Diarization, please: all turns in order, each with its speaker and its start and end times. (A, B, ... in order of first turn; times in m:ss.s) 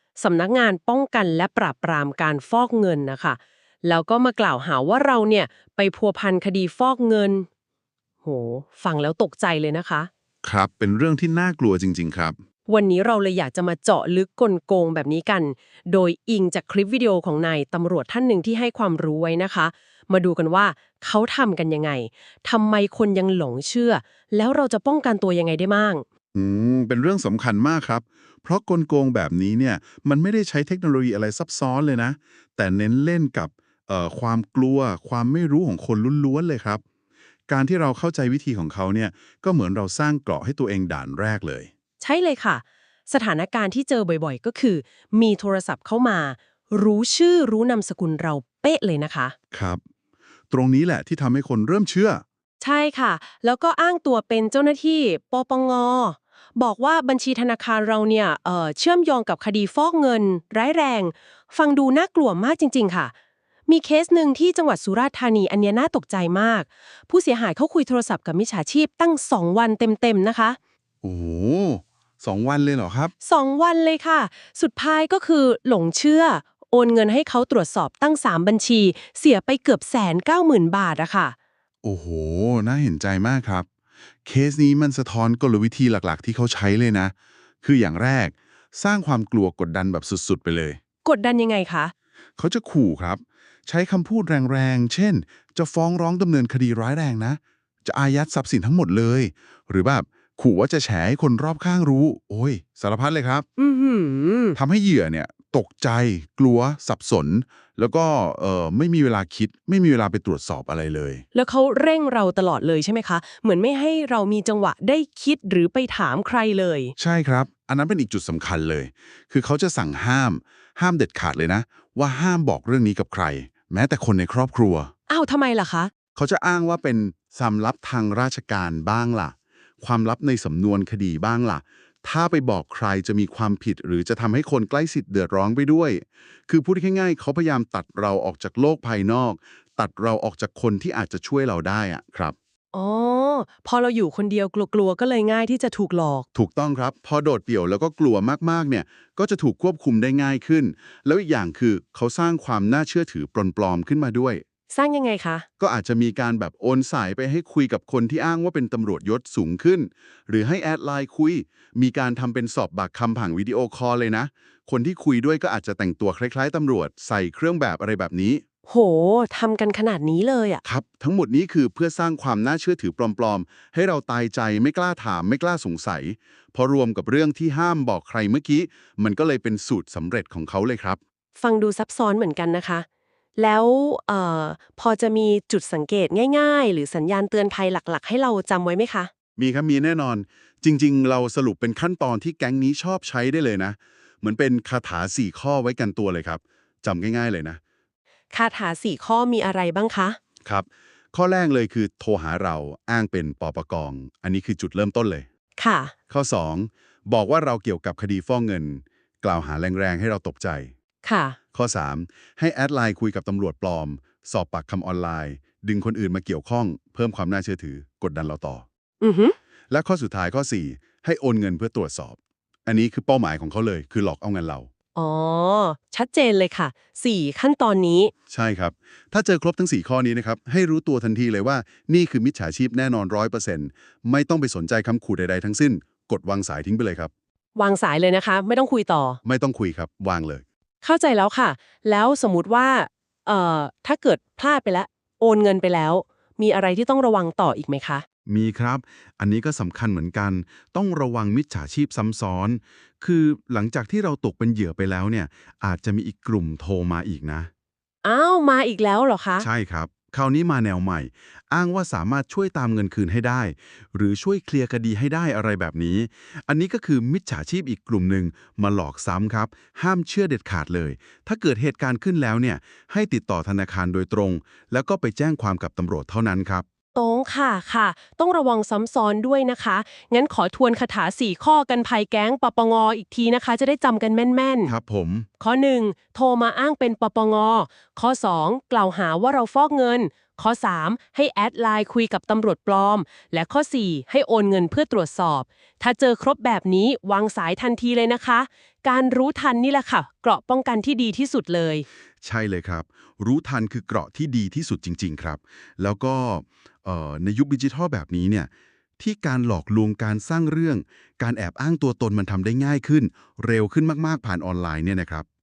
0:00.2-0:07.5 A
0:08.2-0:10.1 A
0:10.4-0:12.4 B
0:12.7-0:26.0 A
0:26.4-0:36.8 B
0:37.5-0:41.7 B
0:42.0-0:49.4 A
0:49.5-0:49.8 B
0:50.5-0:52.2 B
0:52.6-1:03.1 A
1:03.7-1:10.6 A
1:11.0-1:13.1 B
1:13.2-1:21.4 A
1:21.8-1:23.7 B
1:24.2-1:30.8 B
1:31.0-1:31.9 A
1:32.4-1:43.4 B
1:43.6-1:44.6 A
1:44.6-1:51.2 B
1:51.3-1:57.0 A
1:57.0-2:04.9 B
2:05.1-2:05.9 A
2:06.2-2:22.4 B
2:22.7-2:26.3 A
2:26.4-2:34.4 B
2:34.7-2:35.5 A
2:35.6-2:48.4 B
2:48.7-2:50.6 A
2:50.6-3:01.0 B
3:01.4-3:02.9 A
3:03.4-3:09.1 A
3:09.4-3:17.6 B
3:18.3-3:20.2 A
3:20.4-3:25.3 B
3:25.6-3:25.9 A
3:26.1-3:30.7 B
3:31.0-3:31.4 A
3:31.5-3:38.6 B
3:39.0-3:39.4 A
3:39.7-3:44.7 B
3:45.0-3:48.1 A
3:48.3-3:57.1 B
3:57.6-3:59.2 A
3:59.2-4:00.4 B
4:00.8-4:08.0 A
4:08.3-4:17.5 B
4:18.0-4:19.5 A
4:19.4-4:36.6 B
4:37.0-4:44.7 A
4:44.6-4:45.3 B
4:45.4-5:01.8 A
5:02.2-5:15.3 B